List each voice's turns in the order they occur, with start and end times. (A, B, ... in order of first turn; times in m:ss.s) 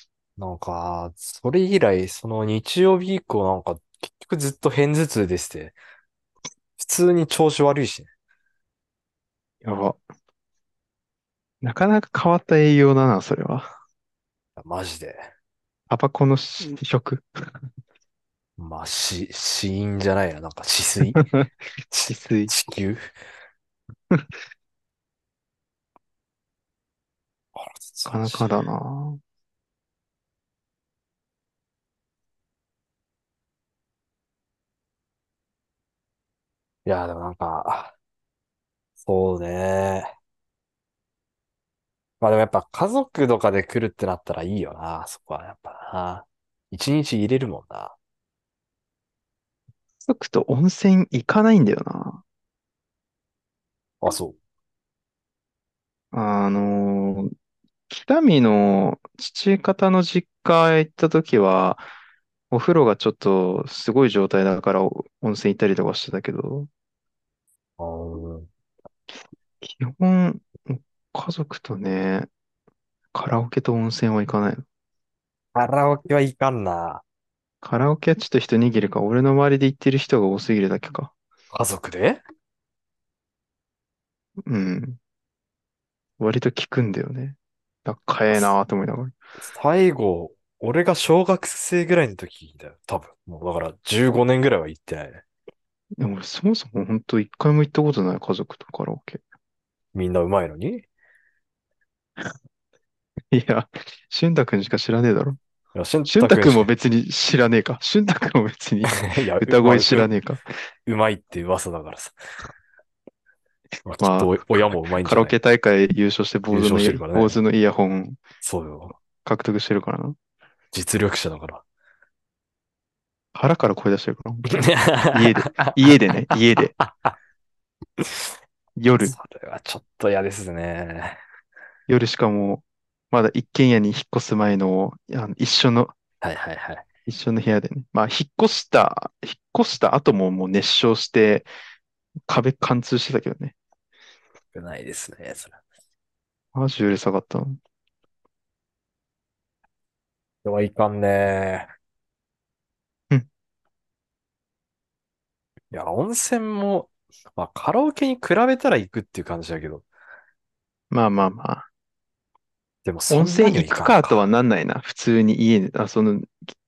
0:00.4-0:05.8 A
0:06.8-0:08.1 A
0:09.6-0:10.0 B
0:11.6-0:13.7 B
0:14.6-0:15.3 A
0:15.9-0:17.5 B
0:18.6-0:21.3 A
0:21.1-0:22.5 B
0:22.5-0:23.1 A
0:27.5-0:28.7 A
0:28.1-0:29.2 B
0:36.8-0:37.9 A
0:39.0-0:40.1 A
0:42.2-0:48.0 A
0:50.0-0:52.2 B
0:54.0-0:54.4 A
0:56.1-0:57.3 B
0:57.9-1:01.8 B
1:02.5-1:06.7 B
1:07.8-1:08.5 A
1:09.6-1:12.3 B
1:13.1-1:14.6 B
1:15.5-1:17.0 A
1:17.6-1:21.1 B
1:21.5-1:22.2 A
1:24.5-1:25.0 B
1:26.2-1:29.1 B
1:29.4-1:35.2 A
1:36.0-1:39.2 B
1:39.9-1:40.8 A
1:43.3-1:45.4 B
1:45.8-1:46.7 A
1:46.1-1:50.4 B
1:48.9-1:50.1 A
1:50.9-1:52.2 A
1:53.8-1:55.4 A
1:54.0-1:54.4 B
1:55.0-1:58.2 B
1:56.5-1:57.4 A
1:58.4-1:58.9 A
1:59.2-2:00.2 B
2:00.7-2:01.6 A
2:03.4-2:04.6 B
2:04.5-2:07.2 A
2:05.1-2:06.8 B
2:08.0-2:08.3 A
2:08.8-2:09.2 B
2:09.0-2:11.2 A
2:11.9-2:15.9 B
2:16.2-2:16.8 A
2:17.1-2:21.5 B
2:22.3-2:23.6 B
2:24.5-2:25.6 A
2:26.6-2:27.6 B
2:30.4-2:31.7 A
2:35.7-2:39.8 A
2:40.9-2:41.7 B
2:42.8-2:44.2 A
2:43.1-2:46.4 B